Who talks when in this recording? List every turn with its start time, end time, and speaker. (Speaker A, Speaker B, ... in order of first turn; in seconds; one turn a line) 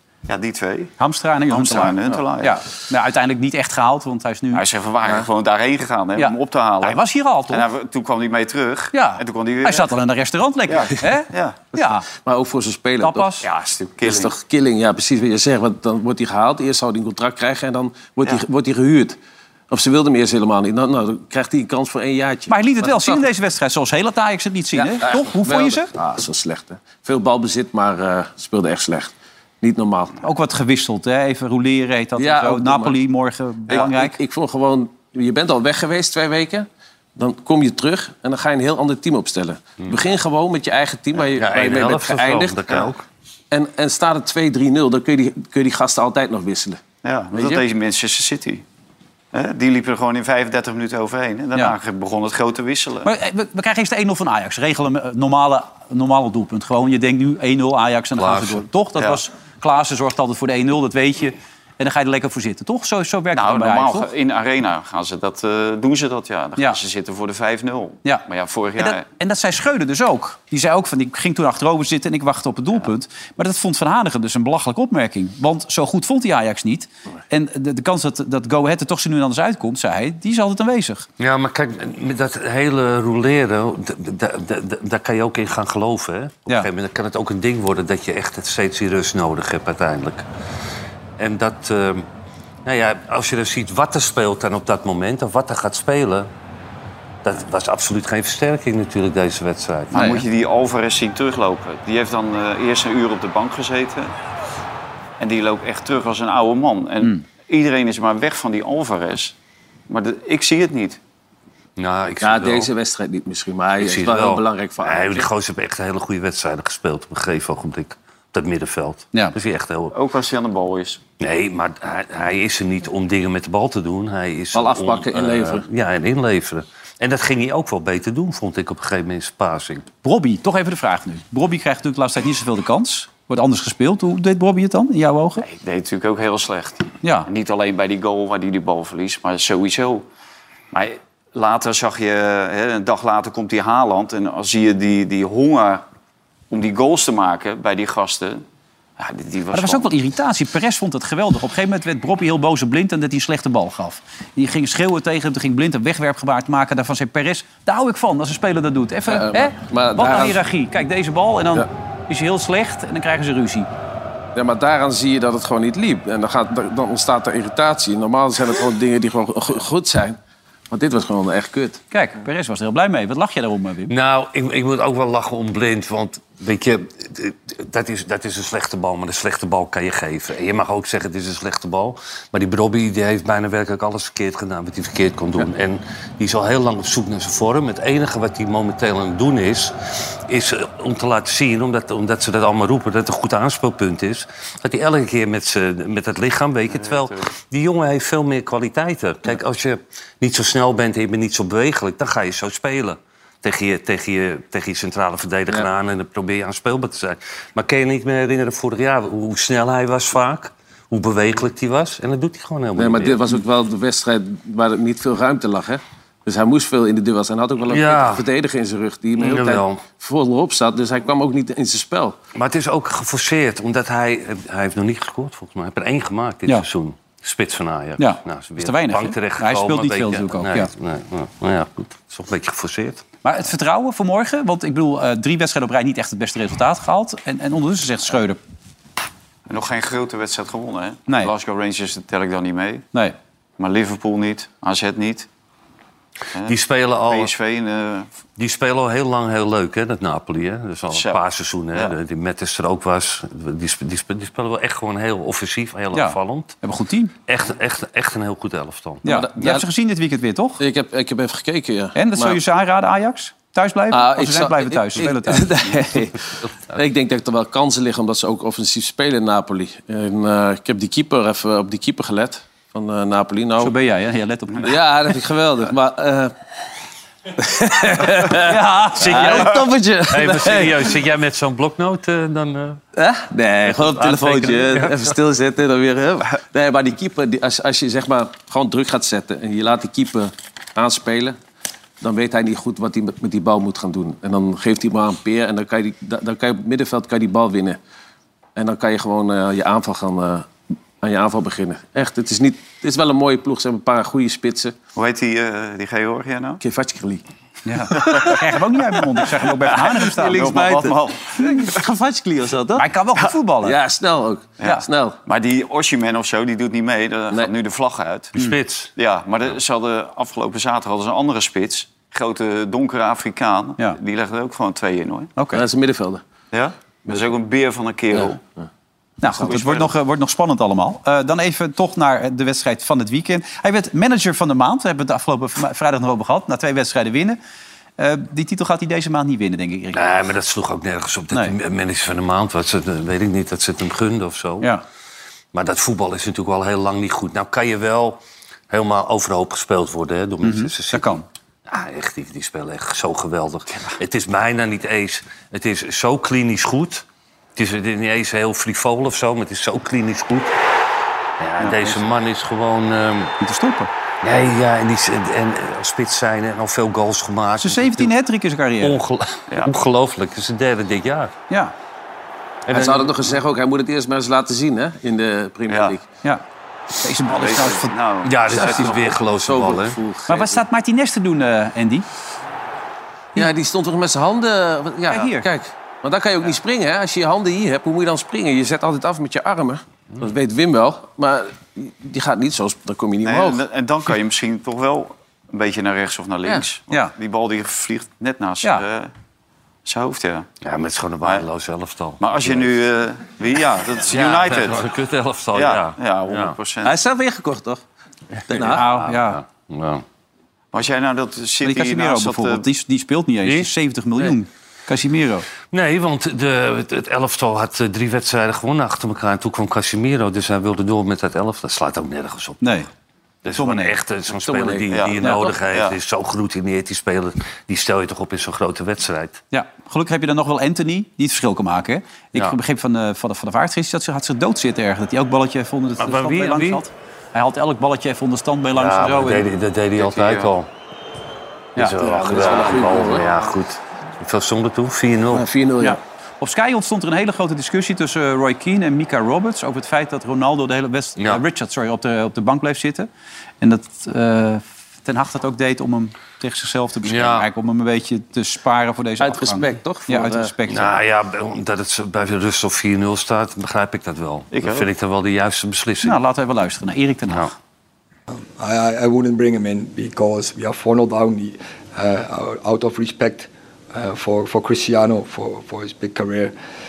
Speaker A: 0.3-0.9
Speaker B: 1.0-4.6
Speaker A: 1.5-2.6
Speaker A: 4.5-9.9
Speaker B: 6.2-7.6
Speaker B: 8.9-12.1
Speaker A: 10.7-11.6
Speaker C: 12.1-13.3
Speaker B: 13.0-13.4
Speaker A: 13.4-14.3
Speaker C: 14.0-19.2
Speaker C: 19.7-23.2
Speaker B: 22.5-25.9
Speaker C: 24.7-30.2
Speaker B: 30.2-34.2
Speaker C: 32.1-33.0
Speaker C: 33.7-42.9
Speaker D: 41.3-43.0
Speaker C: 43.5-46.8
Speaker A: 47.0-48.6
Speaker C: 47.3-47.6
Speaker A: 49.3-53.1
Speaker B: 53.0-64.1
Speaker D: 58.1-58.6
Speaker A: 63.3-69.0
Speaker B: 68.8-81.1
Speaker D: 81.2-90.2
Speaker D: 91.2-92.1
Speaker D: 92.6-96.3
Speaker D: 97.2-100.1
Speaker A: 99.9-104.1
Speaker B: 99.9-100.2
Speaker A: 105.2-109.3
Speaker A: 109.9-111.0
Speaker D: 111.8-112.7
Speaker C: 112.2-115.3
Speaker D: 113.8-119.9
Speaker A: 119.9-121.0
Speaker D: 121.2-129.9
Speaker C: 124.5-125.6
Speaker B: 130.0-135.4
Speaker A: 135.4-140.0
Speaker B: 137.0-137.3
Speaker A: 140.7-145.8
Speaker A: 146.5-148.4
Speaker A: 149.0-149.9
Speaker B: 149.5-163.7
Speaker C: 159.1-160.4
Speaker C: 164.3-170.2
Speaker C: 170.7-171.8
Speaker B: 171.9-173.9
Speaker D: 173.9-213.4
Speaker A: 196.8-197.2
Speaker C: 212.8-222.2
Speaker D: 217.7-218.2
Speaker D: 219.2-219.8
Speaker D: 222.3-233.0
Speaker B: 228.0-230.7
Speaker B: 233.2-238.4
Speaker A: 239.5-242.8
Speaker A: 243.6-245.3
Speaker A: 246.3-248.1
Speaker D: 246.4-247.3
Speaker D: 248.4-256.6
Speaker A: 250.9-251.2
Speaker B: 255.9-257.1
Speaker D: 257.3-259.3
Speaker B: 259.0-260.6
Speaker C: 259.1-259.6
Speaker C: 260.6-262.4
Speaker B: 261.9-266.2
Speaker C: 263.9-265.7
Speaker C: 266.7-273.7
Speaker B: 273.6-274.7
Speaker C: 274.6-276.3
Speaker C: 277.3-280.9
Speaker B: 278.4-279.5
Speaker D: 279.0-279.5
Speaker D: 280.1-282.8
Speaker C: 282.9-291.4
Speaker D: 283.9-285.1
Speaker C: 292.0-297.8
Speaker C: 298.6-300.5
Speaker C: 301.0-304.7
Speaker A: 304.9-306.6
Speaker C: 306.6-307.2
Speaker B: 307.6-310.7
Speaker C: 307.9-308.4
Speaker C: 309.7-312.9
Speaker A: 310.2-311.7
Speaker B: 312.8-313.8
Speaker C: 313.6-315.2
Speaker A: 314.6-318.3
Speaker D: 318.3-318.9
Speaker A: 318.9-325.3
Speaker B: 325.4-325.6
Speaker C: 325.5-326.2
Speaker A: 326.5-328.4
Speaker B: 329.2-337.4
Speaker C: 329.3-329.6
Speaker A: 329.4-329.9
Speaker B: 338.0-340.0
Speaker D: 339.9-344.7
Speaker D: 345.5-360.6
Speaker B: 350.4-351.2
Speaker D: 361.4-363.3
Speaker B: 363.4-363.9
Speaker D: 364.2-368.1
Speaker B: 367.6-369.0
Speaker D: 368.8-371.3
Speaker D: 372.7-373.1
Speaker C: 372.7-376.0
Speaker A: 375.7-376.0
Speaker B: 377.0-377.9
Speaker A: 377.3-378.9
Speaker D: 378.2-380.0
Speaker C: 378.5-380.6
Speaker B: 380.3-382.1
Speaker C: 383.4-393.6
Speaker B: 385.1-385.5
Speaker A: 393.2-399.1
Speaker A: 399.8-400.5
Speaker D: 400.6-402.7
Speaker A: 402.2-404.9
Speaker D: 404.1-406.6
Speaker A: 405.5-407.0
Speaker C: 406.8-407.8
Speaker C: 408.5-408.8
Speaker D: 408.5-410.0
Speaker B: 408.7-409.4
Speaker A: 410.7-412.6
Speaker B: 411.6-415.4
Speaker D: 413.4-413.7
Speaker D: 415.7-422.8
Speaker B: 422.6-422.9
Speaker D: 423.4-429.4
Speaker B: 423.5-424.0
Speaker C: 424.4-425.5
Speaker A: 424.9-425.2
Speaker A: 425.7-425.9
Speaker B: 429.5-439.5
Speaker D: 436.0-436.8
Speaker D: 438.7-440.7
Speaker A: 440.0-440.5
Speaker D: 441.8-445.5
Speaker C: 442.0-443.3
Speaker C: 445.3-446.0
Speaker B: 445.8-453.1
Speaker D: 451.2-451.4
Speaker B: 453.6-461.0
Speaker D: 457.0-457.5
Speaker C: 459.2-460.5
Speaker D: 460.7-466.2
Speaker A: 464.5-464.9
Speaker B: 466.0-467.5
Speaker E: 468.3-476.5